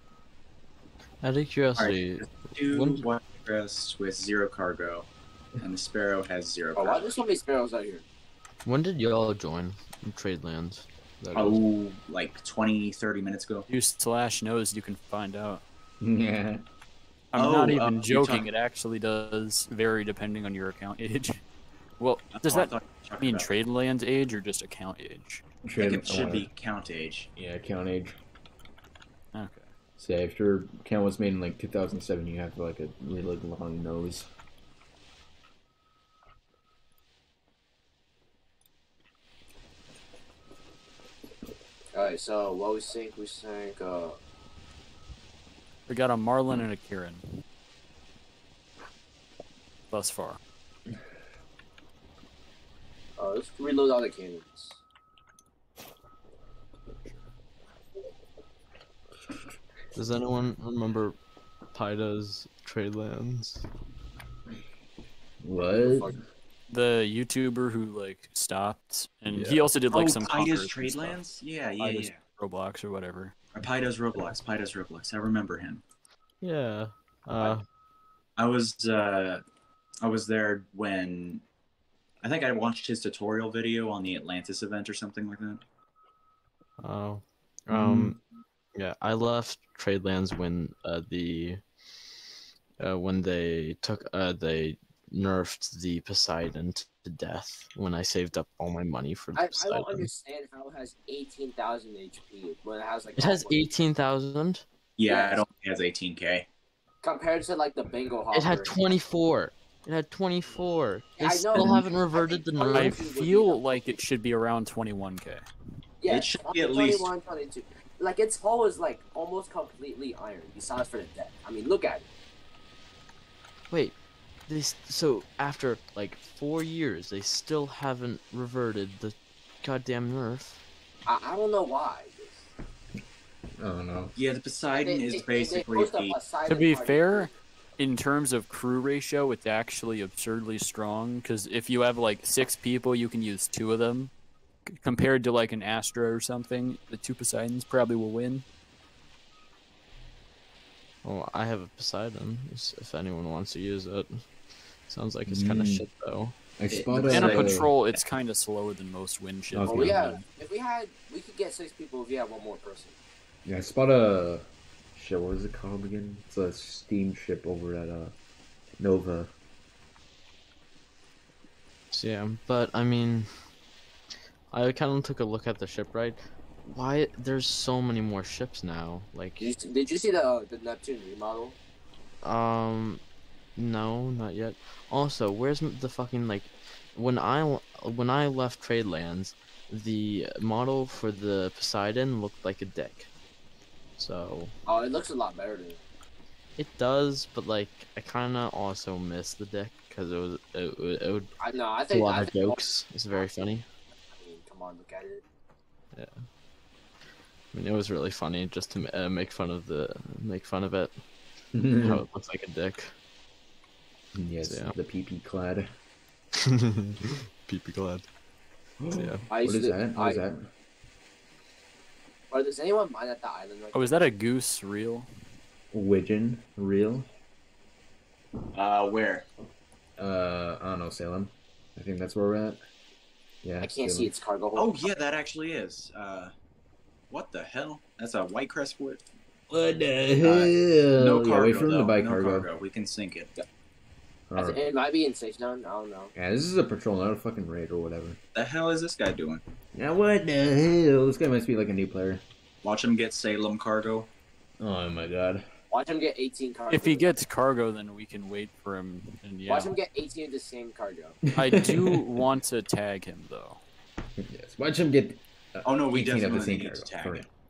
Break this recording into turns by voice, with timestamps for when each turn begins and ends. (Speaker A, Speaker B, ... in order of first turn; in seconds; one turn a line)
Speaker A: 1.2-3.0
Speaker B: 1.8-5.1
Speaker B: 5.6-7.2
Speaker C: 6.8-8.0
Speaker A: 8.7-11.6
Speaker B: 11.3-13.7
Speaker D: 13.7-15.6
Speaker E: 16.0-16.6
Speaker D: 17.3-21.4
Speaker B: 17.3-18.5
Speaker D: 22.0-25.4
Speaker B: 22.3-23.5
Speaker E: 25.6-26.5
Speaker B: 25.8-27.3
Speaker E: 27.4-28.2
Speaker D: 29.3-29.7
Speaker E: 30.0-34.3
Speaker C: 41.9-44.2
Speaker D: 45.9-47.4
Speaker D: 49.9-50.4
Speaker C: 53.2-54.8
Speaker A: 59.9-61.2
Speaker A: 61.7-63.7
Speaker E: 65.4-66.2
Speaker C: 65.6-66.2
Speaker D: 66.7-71.2
Speaker A: 69.3-69.7
Speaker B: 69.9-72.2
Speaker D: 71.8-73.3
Speaker B: 73.5-75.8
Speaker A: 76.4-77.7
Speaker B: 78.4-79.4
Speaker B: 80.0-81.4
Speaker B: 82.2-85.6
Speaker A: 86.8-88.2
Speaker E: 87.7-88.2
Speaker A: 88.8-91.6
Speaker A: 92.8-100.1
Speaker C: 99.3-103.7
Speaker A: 103.2-104.7
Speaker B: 105.0-106.5
Speaker C: 105.1-105.4
Speaker C: 107.0-109.0
Speaker A: 108.3-113.0
Speaker C: 111.2-113.9
Speaker D: 112.7-115.5
Speaker C: 116.0-122.1
Speaker B: 116.1-117.1
Speaker A: 123.7-130.6
Speaker C: 131.1-132.5
Speaker E: 133.6-134.1
Speaker B: 134.2-136.2
Speaker C: 134.8-137.4
Speaker D: 136.5-144.1
Speaker D: 144.7-148.4
Speaker A: 151.0-156.4
Speaker E: 155.3-155.9
Speaker E: 156.6-157.7
Speaker B: 156.7-157.6
Speaker D: 157.1-160.2
Speaker E: 159.5-160.2
Speaker C: 159.7-162.9
Speaker E: 163.4-168.1
Speaker E: 168.8-169.3
Speaker A: 171.9-173.3
Speaker A: 174.5-179.4
Speaker C: 179.4-181.6
Speaker A: 182.2-183.0
Speaker A: 183.6-193.1
Speaker A: 194.0-194.5
Speaker C: 194.7-195.8
Speaker A: 196.6-201.3
Speaker C: 201.4-202.6
Speaker A: 201.9-203.7
Speaker C: 204.2-205.2
Speaker A: 205.9-206.2
Speaker A: 207.5-210.9
Speaker E: 211.5-212.0
Speaker A: 211.8-212.9
Speaker E: 214.2-215.7
Speaker A: 214.4-214.8
Speaker A: 216.8-218.1
Speaker E: 218.8-220.5
Speaker A: 218.9-219.3
Speaker C: 219.3-220.2
Speaker C: 222.3-223.9
Speaker D: 223.7-225.1
Speaker E: 225.7-227.1
Speaker B: 228.5-229.3
Speaker E: 230.0-232.6
Speaker E: 233.4-234.1
Speaker C: 233.6-234.9
Speaker B: 234.6-236.3
Speaker B: 237.1-239.0
Speaker E: 239.5-242.5
Speaker B: 240.2-243.4
Speaker E: 244.3-244.6
Speaker C: 244.4-246.1
Speaker E: 246.2-248.2
Speaker B: 248.3-249.4
Speaker E: 249.7-252.2
Speaker B: 252.6-254.1
Speaker E: 254.6-255.5
Speaker C: 255.7-257.2
Speaker D: 256.7-259.7
Speaker C: 259.5-261.2
Speaker E: 261.3-262.0
Speaker D: 261.4-263.6
Speaker E: 264.2-267.3
Speaker B: 265.6-267.3